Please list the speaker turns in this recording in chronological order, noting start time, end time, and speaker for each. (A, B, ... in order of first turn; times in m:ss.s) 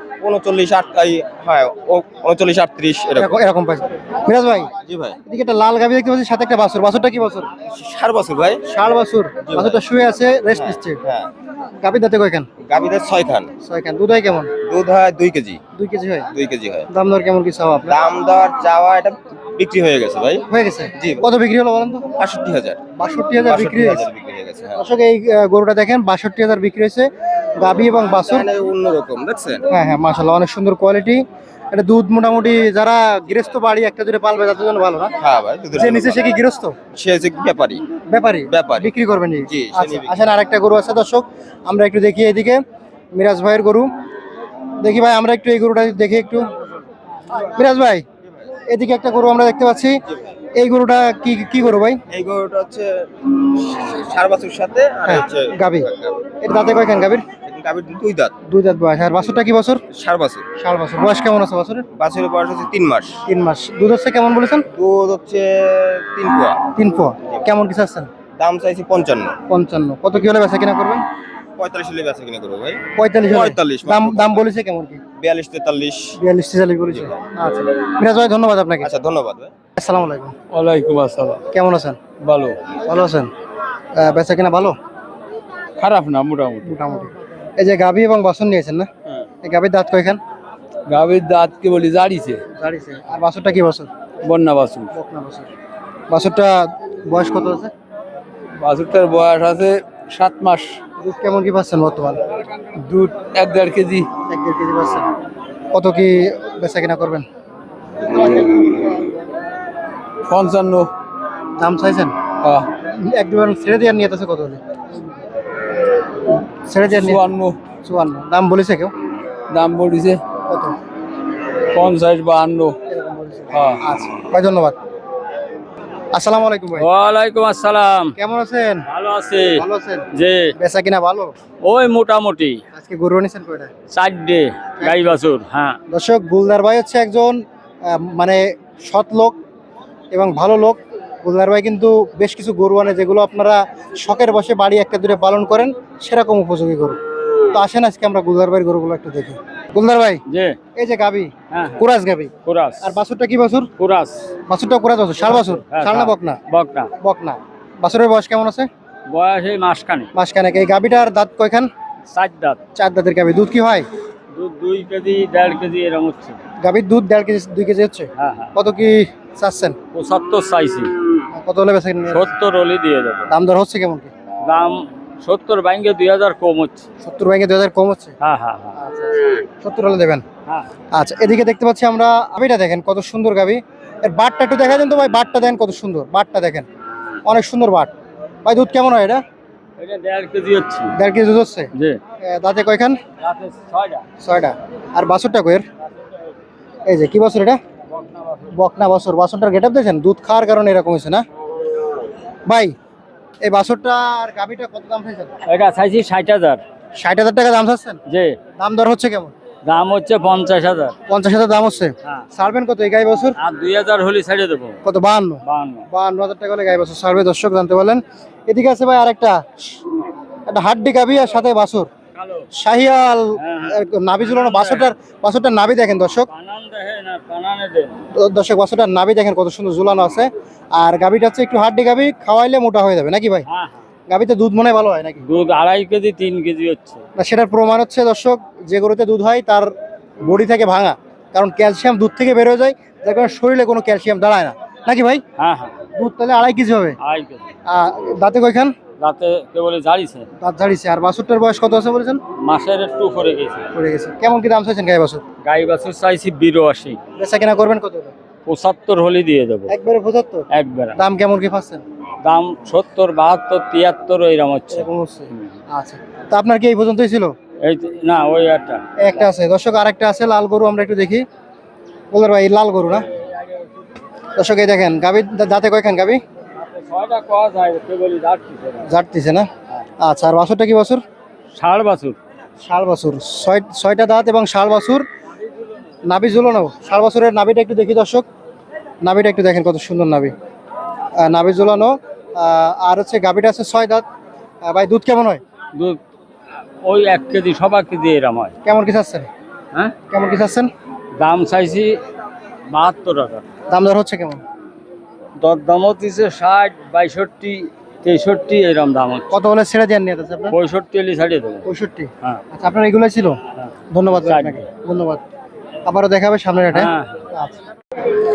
0:00.2-0:03.4 A
0:03.2-0:04.7 B
0:04.9-0:05.2 A
0:05.3-0:07.5 B
0:07.7-0:08.6 A
0:08.7-0:11.0 B
0:09.4-0:09.8 A
0:10.5-0:11.3 A
0:11.8-0:12.5 B
0:12.6-0:13.5 A
0:13.6-0:14.5 B
0:14.6-0:15.6 A
0:15.8-0:16.3 B
0:16.3-0:16.9 A
0:16.9-0:18.0 B
0:17.9-0:20.5 A
0:20.5-0:22.1 B
0:21.0-0:21.2 A
0:22.2-0:22.8 A
0:23.0-0:24.0 B
0:23.4-0:24.8 A
0:24.8-0:28.5 B
0:28.1-0:29.6 A
0:29.7-0:35.1 B
0:35.2-0:36.2 A
0:35.8-0:36.8 B
0:36.9-0:37.8 A
0:38.1-0:42.6 B
0:38.5-0:38.9 A
0:39.5-0:40.1 A
0:43.2-0:43.9 B
0:44.8-0:46.5 B
0:47.4-0:48.1 B
0:48.7-0:50.0 B
0:50.6-0:52.0 B
0:52.1-0:56.2 A
0:55.1-0:55.9 B
0:56.4-0:57.3 B
0:57.4-0:58.3 A
0:58.5-0:59.8 B
0:59.9-1:00.5 A
1:00.6-1:01.9 B
1:02.0-1:03.2 A
1:03.3-1:04.7 B
1:04.7-1:06.6 A
1:06.7-1:08.1 B
1:08.4-1:09.4 A
1:09.5-1:11.0 B
1:11.6-1:14.5 A
1:13.0-1:15.0 B
1:15.2-1:16.2 A
1:16.2-1:18.9 B
1:18.8-1:19.5 A
1:19.8-1:20.3 B
1:20.5-1:21.4 C
1:21.5-1:22.0 B
1:22.3-1:22.6 C
1:22.8-1:23.3 B
1:24.0-1:24.8 B
1:25.8-1:26.7 C
1:26.6-1:28.9 B
1:29.4-1:30.2 B
1:30.9-1:32.4 C
1:32.6-1:33.9 B
1:34.2-1:34.9 C
1:34.9-1:35.5 B
1:36.1-1:37.7 B
1:38.6-1:40.8 C
1:41.0-1:42.2 B
1:42.7-1:44.1 C
1:44.3-1:45.1 B
1:45.7-1:47.3 B
1:48.2-1:48.6 C
1:50.3-1:50.9 C
1:51.6-1:52.2 B
1:52.8-1:54.6 B
1:56.6-1:57.3 B
1:56.9-1:57.6 C
1:57.8-1:58.9 B
1:59.5-2:00.2 C
2:00.5-2:00.8 B
2:01.7-2:02.8 C
2:02.9-2:04.8 B
2:03.5-2:03.8 C
2:06.1-2:06.9 B
2:06.8-2:08.1 D
2:08.2-2:08.8 B
2:08.9-2:09.5 D
2:09.6-2:10.0 B
2:10.2-2:10.5 D
2:10.6-2:11.4 B
2:11.6-2:12.6 D
2:12.8-2:13.7 B
2:13.9-2:15.8 D
2:14.8-2:15.1 B
2:15.9-2:19.4 B
2:20.1-2:27.0 B
2:27.5-2:30.2 B
2:30.3-2:30.6 D
2:30.8-2:32.3 B
2:31.5-2:31.8 D
2:32.4-2:33.0 D
2:32.8-2:33.7 B
2:33.8-2:34.2 D
2:34.5-2:36.4 B
2:35.2-2:36.9 D
2:37.0-2:38.7 B
2:39.1-2:40.1 D
2:40.2-2:41.7 B
2:42.1-2:42.6 D
2:42.8-2:43.9 B
2:44.3-2:46.4 D
2:46.6-2:49.8 B
2:48.2-2:48.5 D
2:49.9-2:50.9 D
2:51.4-2:52.3 B
2:52.1-2:53.3 D
2:53.3-2:54.1 B
2:54.5-2:56.8 D
2:57.0-2:58.2 B
2:58.2-2:58.8 D
2:58.8-3:00.2 B
3:00.9-3:06.6 B
3:07.2-3:07.9 B
3:08.4-3:09.2 B
3:09.8-3:10.9 D
3:11.0-3:11.7 B
3:12.2-3:13.0 B
3:13.2-3:14.0 D
3:14.2-3:15.6 B
3:16.9-3:17.6 B
3:18.0-3:18.5 D
3:18.5-3:21.2 B
3:22.5-3:22.7 B
3:23.4-3:25.3 B
3:25.5-3:26.6 D
3:27.0-3:28.0 B
3:28.1-3:28.4 D
3:28.6-3:29.3 B
3:29.6-3:31.0 D
3:31.1-3:33.4 B
3:33.4-3:34.8 D
3:34.8-3:39.8 B
3:35.5-3:35.9 D
3:40.5-3:41.9 B
3:42.1-3:42.5 D
3:42.6-3:46.3 B
3:43.4-3:44.9 D
3:46.3-3:47.9 D
3:48.1-3:53.5 B
3:53.5-3:53.8 D
3:54.1-3:55.2 B
3:55.2-3:57.0 D
3:57.2-3:59.7 B
4:00.2-4:05.2 B
4:05.4-4:05.8 D
4:06.0-4:07.0 B
4:07.0-4:07.4 D
4:07.7-4:08.7 B
4:09.0-4:10.3 D
4:10.4-4:12.2 B
4:12.5-4:13.6 D
4:13.7-4:15.2 B
4:15.4-4:17.0 D
4:17.2-4:18.1 B
4:18.5-4:19.7 D
4:19.7-4:21.8 B
4:20.5-4:21.0 D
4:22.2-4:25.5 D
4:24.7-4:27.4 B
4:27.6-4:28.8 D
4:29.0-4:31.2 B
4:32.1-4:33.1 B
4:34.4-4:36.2 B
4:36.6-4:38.9 D
4:38.9-4:39.5 B
4:40.0-4:41.0 B
4:41.6-4:42.2 D
4:42.6-4:45.0 B
4:46.0-4:48.2 B
4:49.0-4:50.3 B
4:51.2-4:54.0 B
4:54.6-4:55.4 B
4:55.8-4:56.0 D
4:56.8-4:58.5 D
4:58.6-4:59.3 B
5:00.1-5:00.7 B
5:01.2-5:02.0 D
5:02.7-5:03.4 D
5:03.7-5:04.4 B
5:05.4-5:09.3 D
5:09.3-5:10.6 B
5:10.5-5:11.6 D
5:11.6-5:13.4 B
5:13.9-5:15.2 B
5:14.2-5:14.6 D
5:15.9-5:17.6 B
5:16.7-5:17.2 D